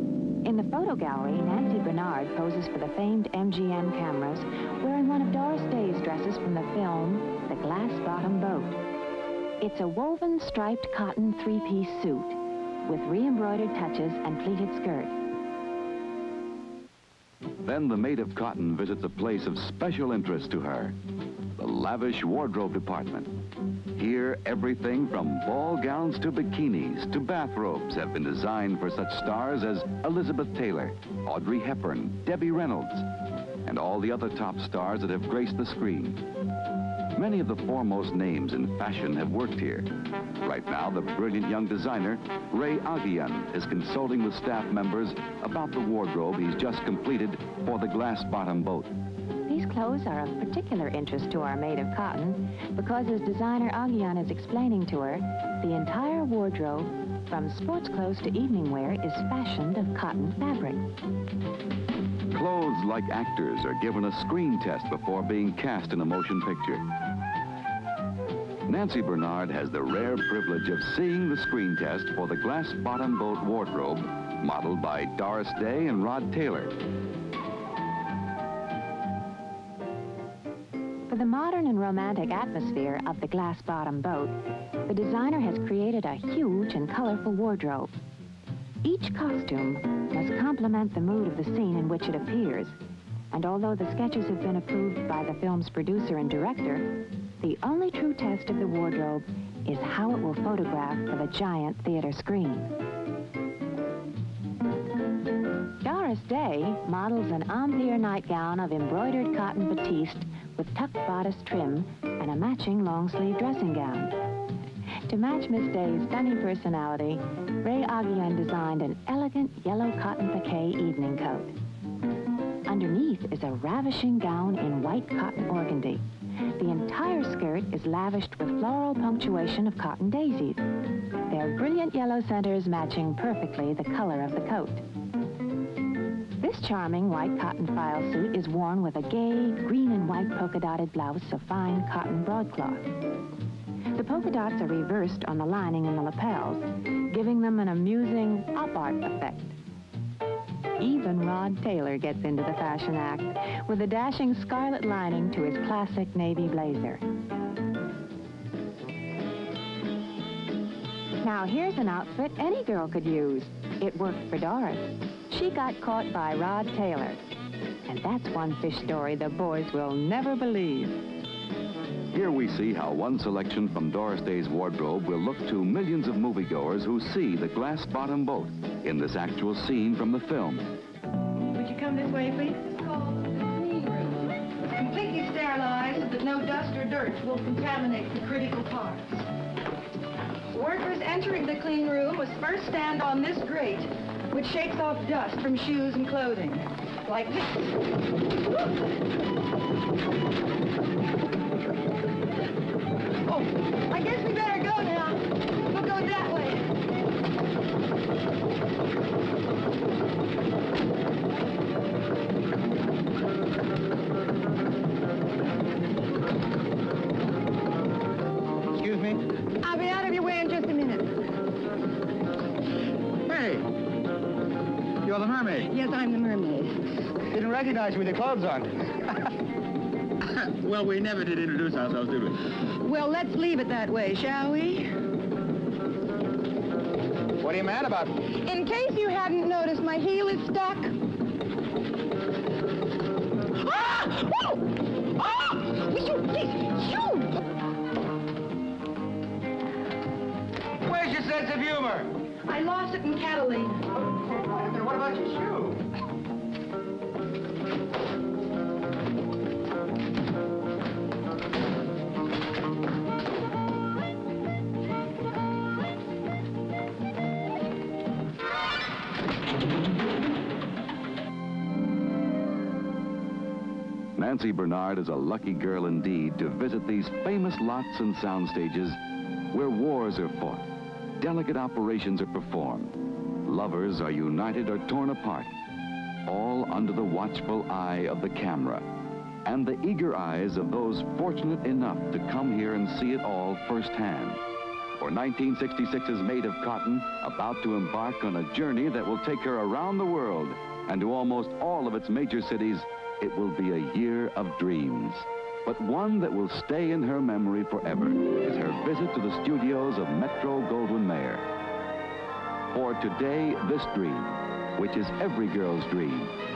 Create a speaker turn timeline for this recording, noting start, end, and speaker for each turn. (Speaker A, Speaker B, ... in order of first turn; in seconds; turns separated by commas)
Speaker A: 0.5-8.8, Speaker A: 9.6-15.2, Speaker B: 17.6-21.0, Speaker B: 21.6-23.3, Speaker B: 23.9-33.1, Speaker B: 33.6-36.2, Speaker B: 37.1-39.9, Speaker B: 40.4-48.9, Speaker A: 49.5-60.9, Speaker B: 62.3-66.8, Speaker B: 68.7-76.8, Speaker A: 81.1-87.9, Speaker A: 88.8-92.8, Speaker A: 93.3-102.7, Speaker A: 105.8-114.2, Speaker A: 115.1-121.5, Speaker A: 122.7-130.7, Speaker A: 131.3-134.8, Speaker A: 136.4-142.9, Speaker A: 143.9-149.6, Speaker A: 150.8-157.0, Speaker A: 161.2-167.2, Speaker A: 167.9-171.0, Speaker B: 172.1-180.7, Speaker C: 181.5-189.3, Speaker C: 190.5-197.8, Speaker C: 203.2-206.8, Speaker D: 218.7-219.4, Speaker C: 219.5-221.2, Speaker D: 223.2-223.7, Speaker D: 225.0-225.7, Speaker C: 225.7-227.2, Speaker D: 227.2-229.1, Speaker D: 230.3-232.6, Speaker C: 232.6-235.0, Speaker D: 237.4-238.3, Speaker C: 238.3-241.1, Speaker C: 243.6-247.3, Speaker D: 250.8-252.1, Speaker C: 252.4-253.9, Speaker D: 254.5-255.8, Speaker B: 274.2-279.0, Speaker B: 279.5-280.7, Speaker B: 281.2-285.6, Speaker B: 286.3-288.9, Speaker B: 289.4-294.4, Speaker B: 295.0-311.4, Speaker B: 312.7-316.3